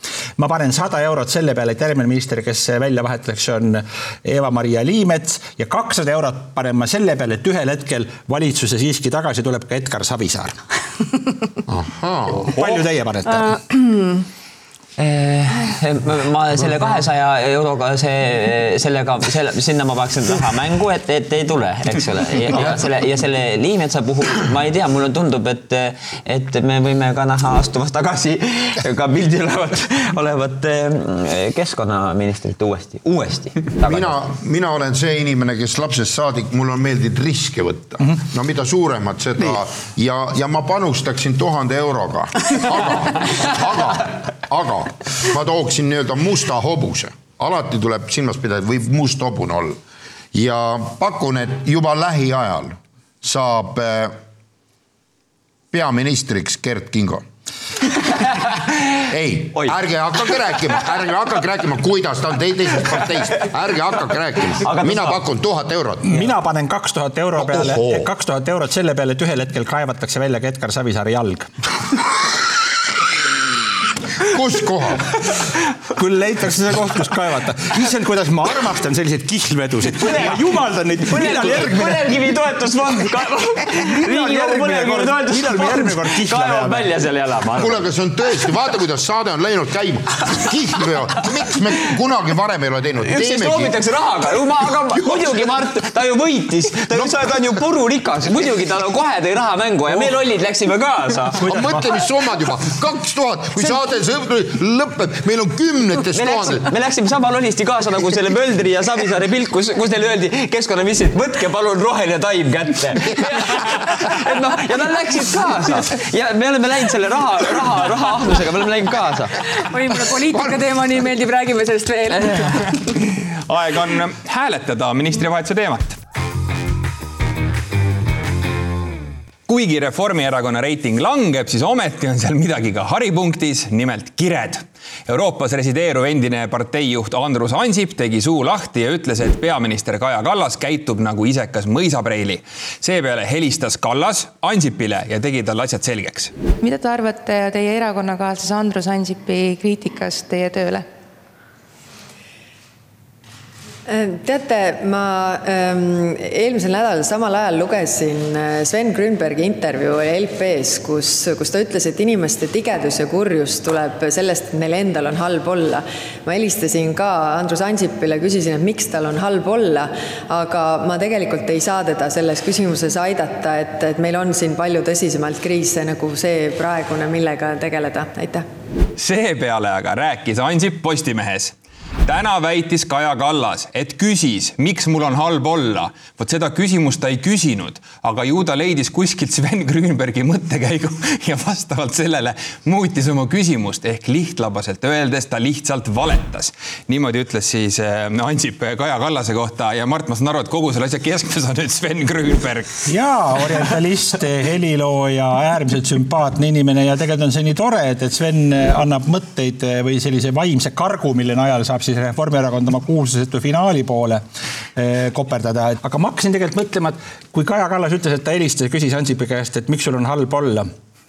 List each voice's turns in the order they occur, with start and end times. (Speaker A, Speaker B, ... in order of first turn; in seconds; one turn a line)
Speaker A: 0.4-10.6
Speaker B: 11.7-12.5
Speaker A: 12.4-13.6
Speaker C: 15.0-34.1
Speaker B: 33.8-49.8
Speaker B: 50.3-54.1
Speaker B: 55.7-57.2
Speaker B: 59.0-66.2
Speaker C: 64.6-65.2
Speaker A: 66.0-71.5
Speaker B: 74.2-75.2
Speaker A: 76.0-82.3
Speaker C: 80.0-80.4
Speaker C: 81.1-87.8
Speaker A: 83.8-86.9
Speaker B: 87.6-93.8
Speaker C: 93.0-101.5
Speaker A: 101.4-101.9
Speaker B: 101.5-106.7
Speaker C: 106.1-119.5
Speaker D: 119.6-122.8
Speaker E: 123.0-126.0
Speaker E: 129.5-146.3
Speaker F: 146.6-150.9
Speaker G: 153.9-178.4
Speaker E: 179.0-181.5
Speaker E: 182.1-202.7
Speaker A: 202.9-214.2
Speaker A: 214.8-220.7